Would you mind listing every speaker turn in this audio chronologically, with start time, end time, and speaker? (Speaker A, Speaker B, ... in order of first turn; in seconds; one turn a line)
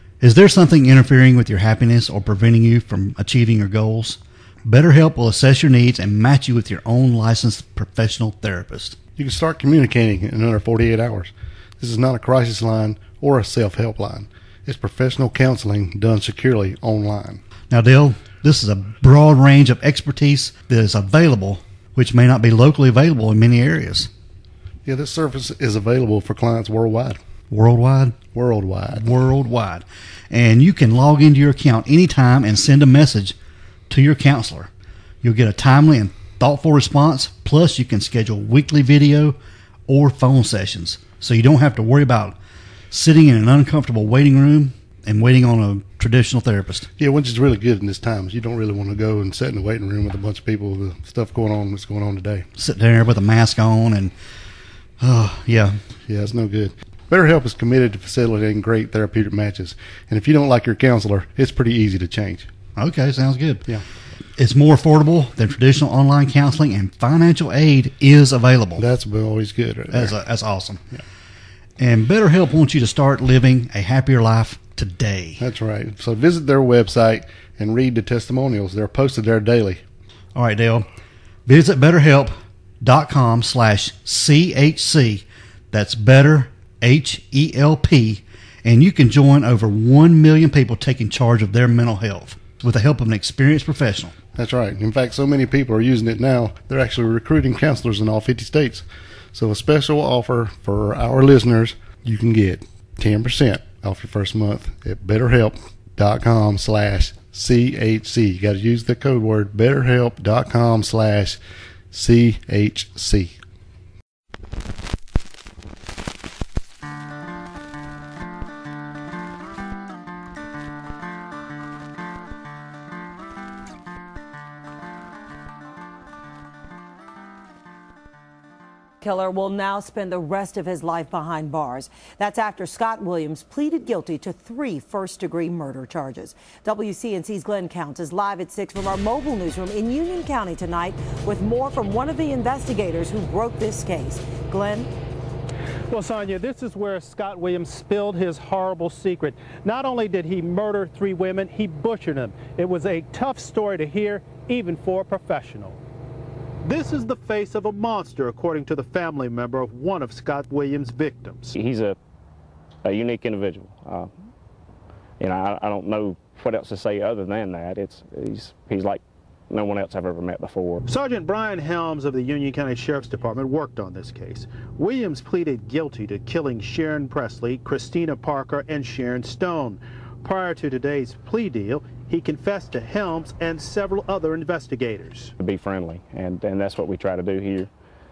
Speaker A: 0.2-9.0
Speaker B: 9.2-17.4
Speaker A: 17.7-24.1
Speaker B: 24.9-27.2
Speaker A: 27.5-28.2
Speaker B: 28.3-29.1
Speaker A: 28.9-33.4
Speaker A: 33.9-34.7
Speaker A: 35.2-39.4
Speaker A: 39.9-42.4
Speaker A: 42.9-46.9
Speaker B: 47.0-52.5
Speaker A: 52.6-54.1
Speaker A: 55.0-55.8
Speaker B: 56.1-62.5
Speaker A: 62.8-63.7
Speaker A: 64.4-68.9
Speaker B: 68.8-70.2
Speaker A: 69.9-70.9
Speaker A: 71.8-75.4
Speaker B: 75.4-79.8
Speaker A: 80.3-80.9
Speaker A: 81.5-94.2
Speaker B: 94.3-111.4
Speaker B: 111.9-113.4
Speaker C: 129.0-144.9
Speaker D: 145.9-155.8
Speaker D: 156.6-161.5
Speaker E: 161.5-162.0
Speaker E: 162.8-164.1
Speaker E: 165.2-170.8
Speaker D: 170.9-185.3
Speaker E: 185.4-187.7